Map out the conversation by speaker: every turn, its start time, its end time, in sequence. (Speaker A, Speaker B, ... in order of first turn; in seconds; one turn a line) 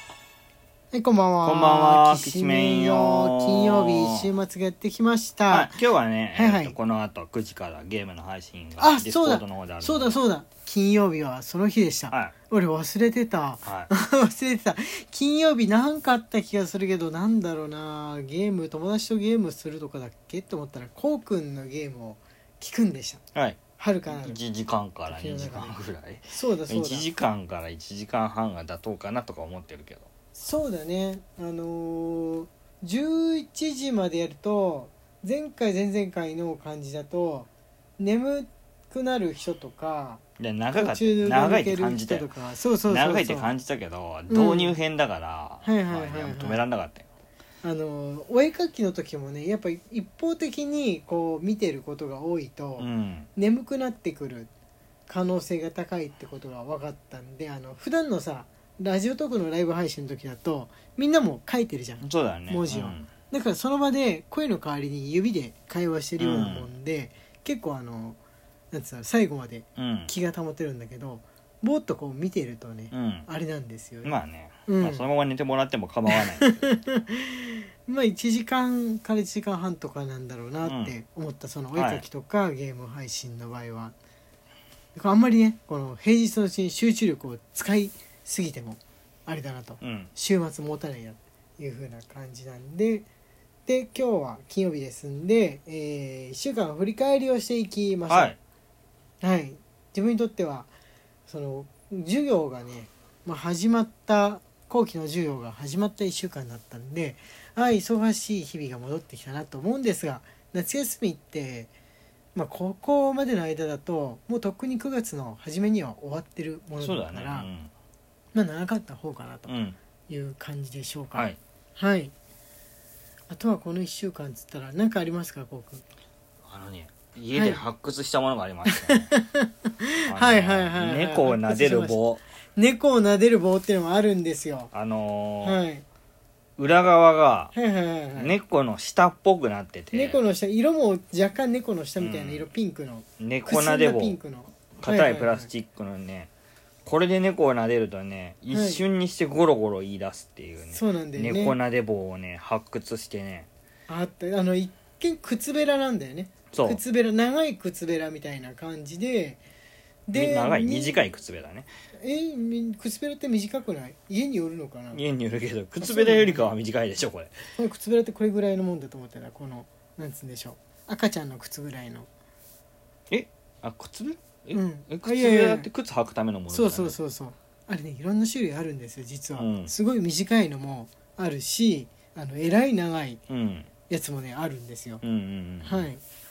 Speaker A: 0.9-5.7
Speaker B: 1.4-4.3
Speaker B: 5.5-10.2
Speaker A: 6.3-6.7
Speaker A: 8.8-23.2
Speaker B: 13.6-13.9
Speaker B: 23.3-30.1
Speaker A: 23.8-24.4
Speaker A: 25.1-25.8
Speaker A: 26.3-27.1
Speaker A: 30.3-43.5
Speaker B: 40.4-42.3
Speaker B: 42.9-47.0
Speaker A: 44.3-44.8
Speaker A: 45.6-46.6
Speaker A: 47.6-54.5
Speaker B: 52.8-53.3
Speaker A: 55.1-68.2
Speaker B: 62.0-63.0
Speaker B: 66.2-66.7
Speaker A: 68.7-74.1
Speaker B: 69.8-70.1
Speaker B: 72.9-73.3
Speaker B: 74.0-76.7
Speaker A: 74.7-75.0
Speaker A: 76.1-83.9
Speaker B: 80.6-80.9
Speaker B: 81.7-82.0
Speaker A: 85.0-93.1
Speaker B: 89.8-90.1
Speaker A: 93.7-98.3
Speaker B: 98.1-98.4
Speaker A: 99.2-100.7
Speaker A: 101.3-111.7
Speaker A: 112.3-117.5
Speaker B: 116.8-117.7
Speaker A: 118.3-119.5
Speaker B: 119.5-119.8
Speaker A: 120.1-122.1
Speaker A: 123.3-125.8
Speaker B: 126.4-129.1
Speaker A: 127.3-127.6
Speaker A: 128.7-132.0
Speaker B: 130.1-132.2
Speaker A: 132.6-134.7
Speaker B: 134.7-135.6
Speaker A: 135.4-135.8
Speaker B: 136.6-137.5
Speaker A: 137.5-138.3
Speaker B: 138.2-140.2
Speaker A: 139.9-145.5
Speaker B: 142.0-142.5
Speaker B: 143.2-144.2
Speaker B: 144.8-146.3
Speaker B: 146.8-153.5
Speaker A: 148.5-148.8
Speaker A: 150.7-151.6
Speaker A: 153.9-159.4
Speaker B: 156.5-156.8
Speaker A: 160.1-161.1
Speaker B: 160.1-161.7
Speaker A: 162.0-165.0
Speaker B: 164.9-167.3
Speaker A: 165.8-166.5
Speaker A: 167.6-172.1
Speaker B: 173.1-176.9
Speaker A: 174.5-175.7
Speaker A: 176.5-183.2
Speaker B: 179.4-179.7
Speaker B: 183.3-183.7
Speaker A: 183.9-185.0
Speaker B: 185.0-185.9
Speaker A: 185.6-186.0